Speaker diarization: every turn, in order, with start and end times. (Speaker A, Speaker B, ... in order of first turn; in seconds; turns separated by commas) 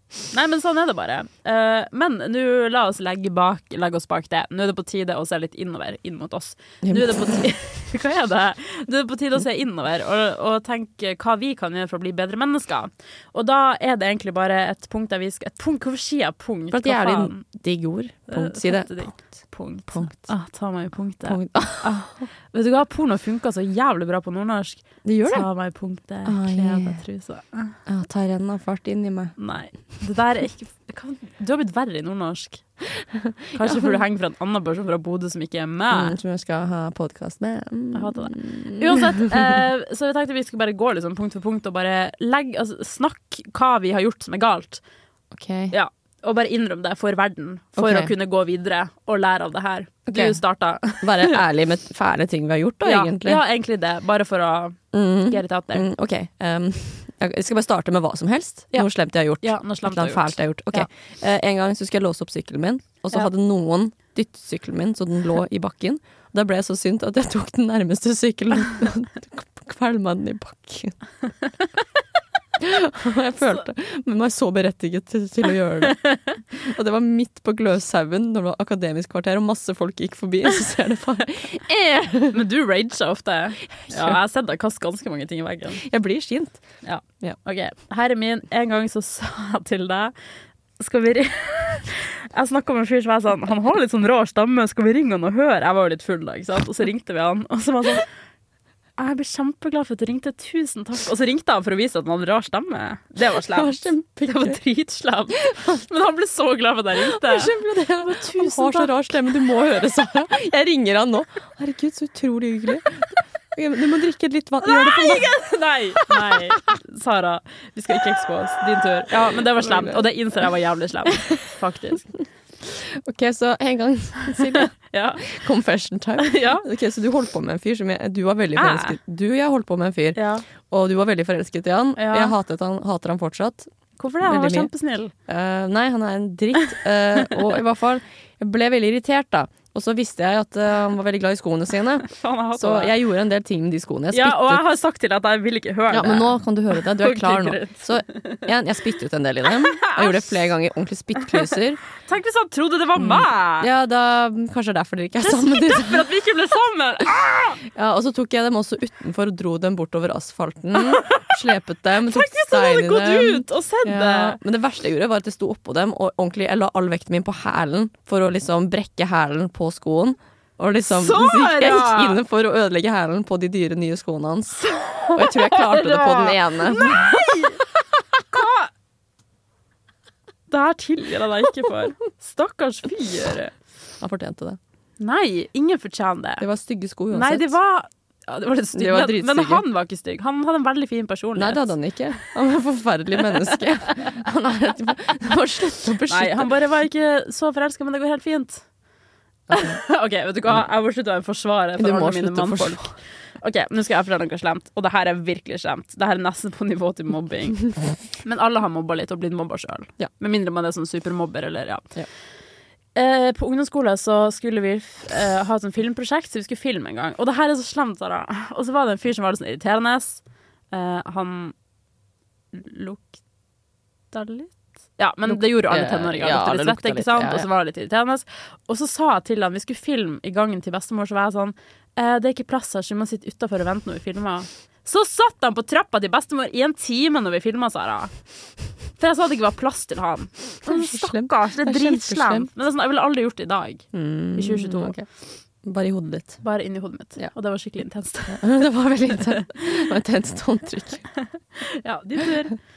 Speaker A: 0.3-17.4, Speaker B: 6.8-7.4, Speaker B: 16.7-20.4, Speaker A: 18.3-27.8, Speaker B: 21.2-22.3, Speaker B: 25.0-25.5, Speaker B: 26.2-27.1, Speaker B: 27.9-29.4, Speaker A: 29.4-32.7, Speaker B: 33.0-33.9, Speaker A: 33.5-36.2, Speaker B: 35.9-39.3, Speaker A: 37.9-44.8, Speaker B: 45.3-45.8, Speaker A: 45.7-51.4, Speaker B: 47.8-48.1, Speaker B: 50.1-53.4, Speaker A: 52.9-55.9, Speaker B: 54.9-71.0, Speaker A: 59.4-60.9, Speaker B: 72.6-82.4, Speaker A: 76.0-76.3, Speaker A: 82.3-85.8, Speaker B: 83.8-84.2, Speaker B: 85.8-86.6, Speaker A: 86.8-90.1, Speaker A: 90.8-98.0, Speaker A: 99.0-108.9, Speaker B: 103.5-104.6, Speaker B: 105.5-105.8, Speaker B: 107.0-115.3, Speaker A: 114.6-122.2, Speaker B: 119.3-120.1, Speaker B: 122.7-133.7, Speaker A: 124.5-125.3, Speaker A: 126.2-126.7, Speaker A: 128.6-129.0, Speaker A: 130.2-130.4, Speaker A: 132.0-132.3, Speaker A: 134.0-135.1, Speaker B: 134.2-134.7, Speaker B: 135.3-144.7, Speaker A: 142.1-142.9, Speaker A: 144.1-148.4, Speaker B: 145.9-151.8, Speaker A: 149.5-150.3, Speaker A: 152.0-153.7, Speaker B: 153.0-156.1, Speaker A: 155.2-157.6, Speaker B: 157.7-177.3, Speaker A: 160.8-161.3, Speaker A: 162.1-164.4, Speaker A: 170.8-172.2, Speaker A: 174.7-177.6, Speaker A: 178.3-178.7, Speaker A: 180.5-183.5, Speaker B: 184.0-184.6, Speaker A: 185.0-186.5, Speaker B: 186.4-187.6, Speaker A: 187.1-191.8, Speaker B: 188.7-189.6, Speaker B: 191.4-196.5, Speaker A: 196.1-198.7, Speaker B: 199.5-199.8, Speaker A: 199.5-207.7, Speaker B: 201.8-202.9, Speaker A: 208.2-211.9, Speaker A: 212.9-221.6, Speaker A: 222.5-223.2, Speaker A: 224.1-238.1, Speaker B: 225.3-227.5, Speaker A: 239.0-244.9, Speaker B: 240.7-242.5, Speaker B: 243.9-245.1, Speaker B: 245.6-246.4, Speaker A: 246.4-248.5, Speaker B: 248.3-251.1, Speaker A: 251.6-252.6